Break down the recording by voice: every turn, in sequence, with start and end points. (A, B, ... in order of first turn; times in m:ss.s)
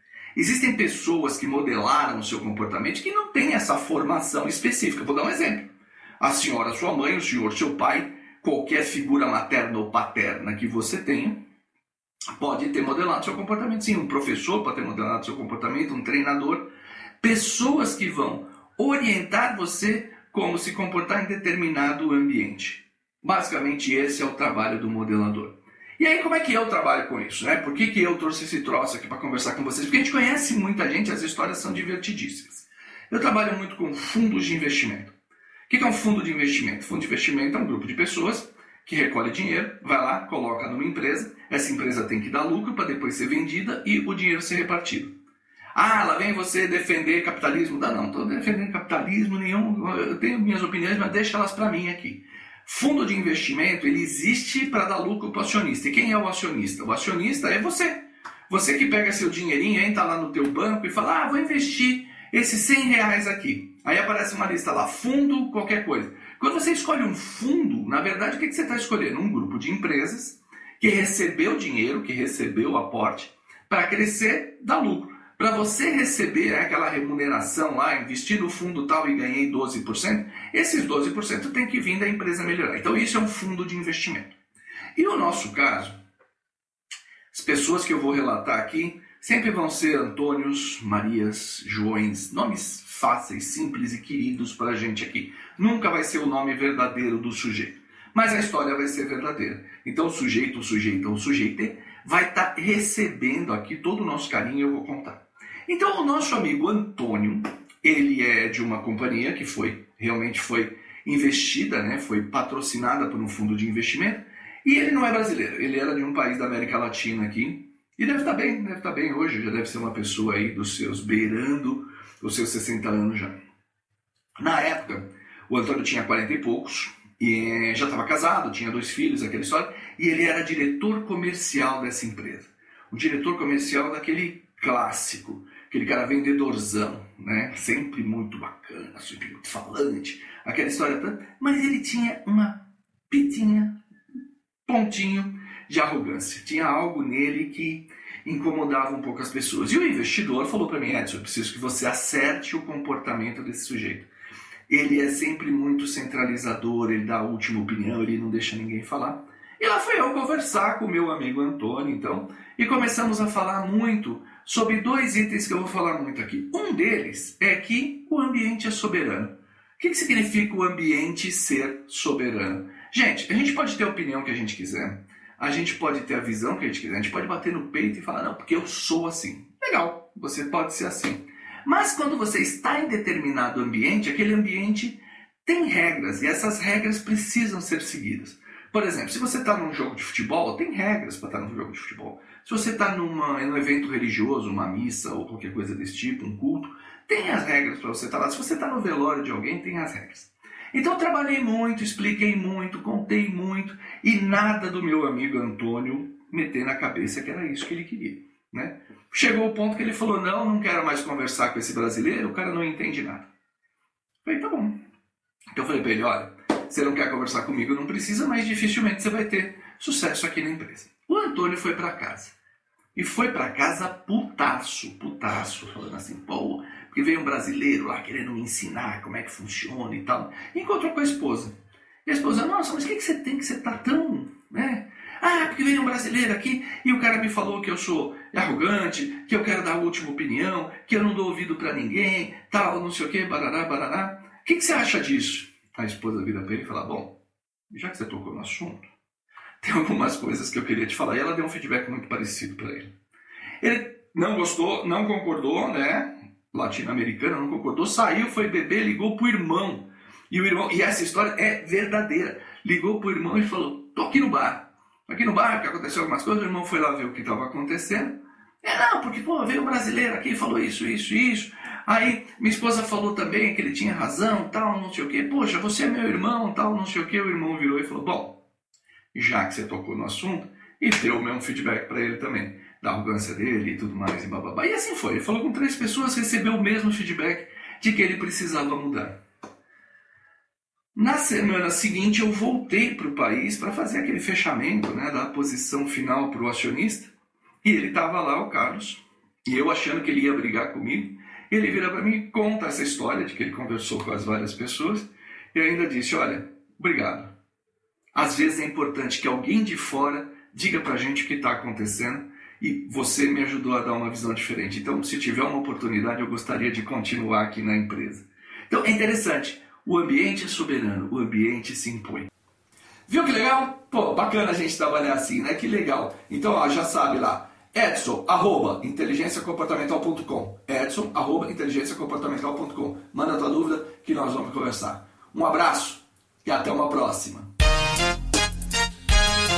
0:00.4-0:11.4 A
0:12.4-0:35.2 A
0:35.7-0:45.1 A
0:45.8-1:24.4 A
1:25.0-1:26.0 A
1:27.3-2:03.4 A
2:04.4-2:23.8 A
2:24.7-2:34.1 A
2:34.7-3:33.3 A
3:34.2-3:34.8 A
3:35.6-3:42.4 A
3:42.9-4:07.2 A
4:07.7-4:08.9 A
4:09.6-4:12.9 A
4:13.6-4:38.4 A
4:39.1-4:49.2 A
4:51.0-5:07.3 A
5:08.1-5:22.3 A
5:23.1-5:37.5 A